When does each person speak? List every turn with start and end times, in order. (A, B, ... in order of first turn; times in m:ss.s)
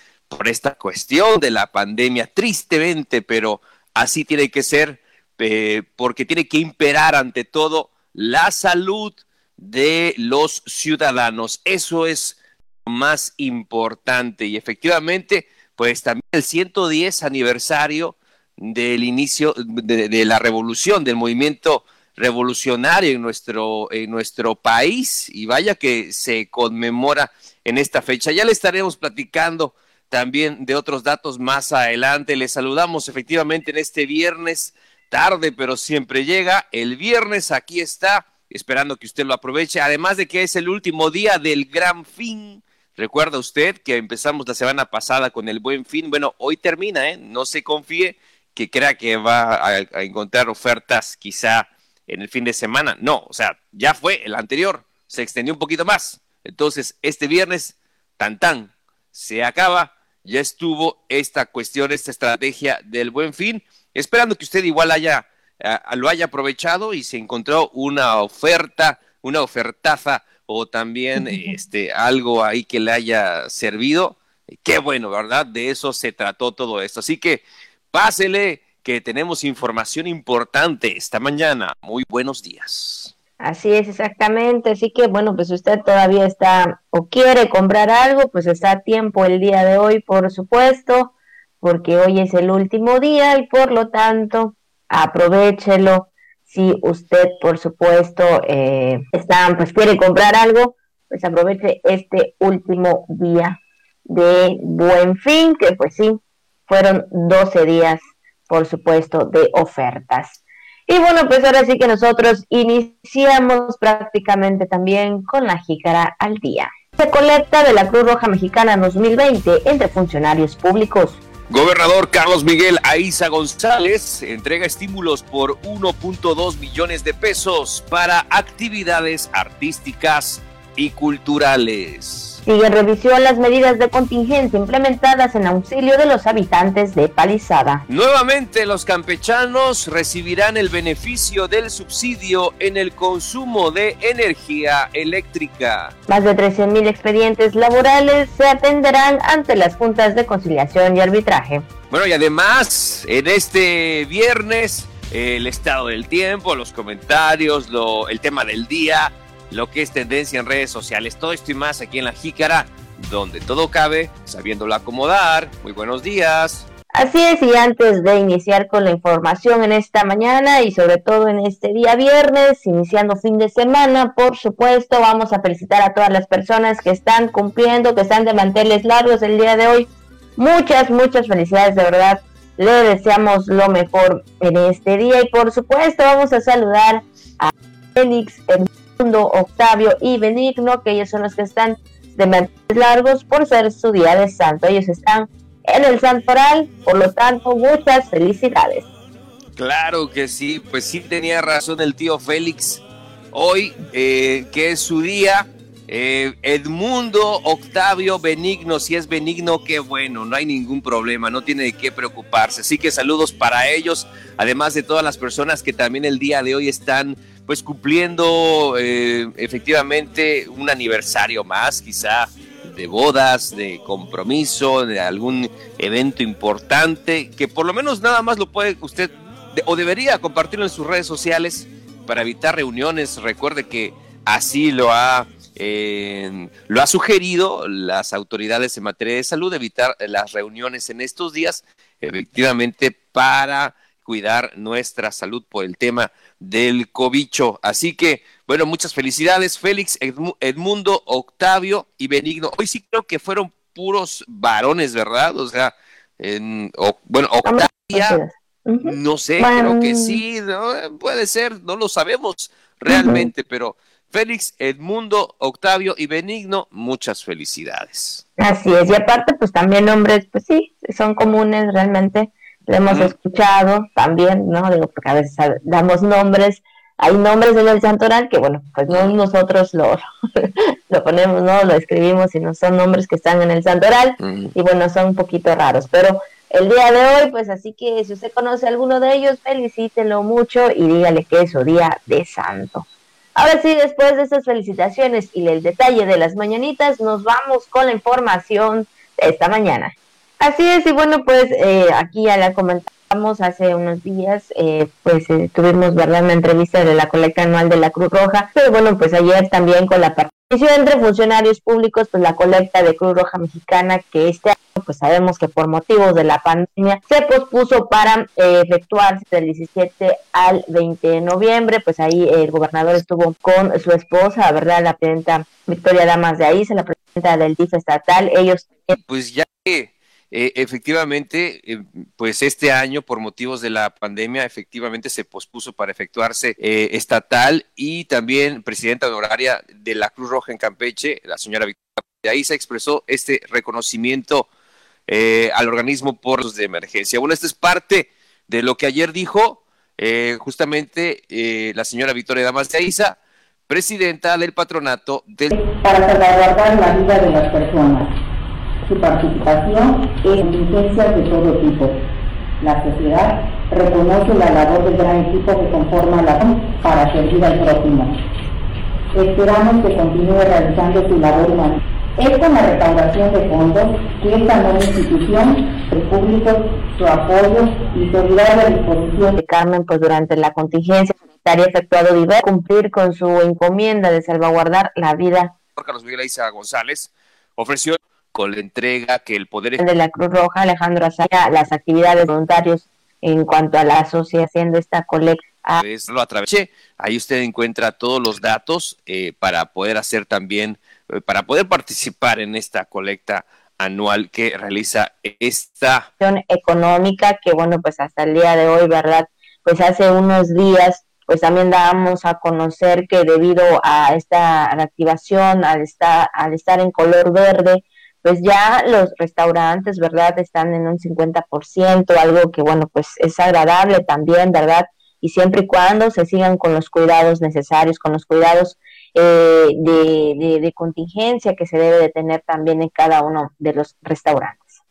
0:00.3-1:23.1 A
1:23.4-2:01.2 B
2:01.5-2:12.4 A
2:12.4-2:17.8 B
2:17.9-2:25.9 A
2:26.1-2:31.7 B
2:31.9-2:46.6 A
2:46.9-3:18.9 B
3:19.6-4:18.2 A
4:17.4-4:20.2 B
4:18.8-4:28.2 A
4:22.9-4:23.3 B
4:28.4-4:52.8 B
4:44.2-4:44.5 A
4:53.4-5:29.0 B
5:28.9-5:44.5 A
5:45.1-5:53.2 A
5:53.7-5:55.5 A
5:55.6-5:58.1 C
5:58.9-6:02.0 C
6:02.6-6:08.1 C
6:09.1-6:19.3 C
6:19.3-6:25.5 B
6:25.8-6:29.8 A
6:29.8-6:35.8 B
6:35.8-6:46.1 A
6:46.2-7:14.8 B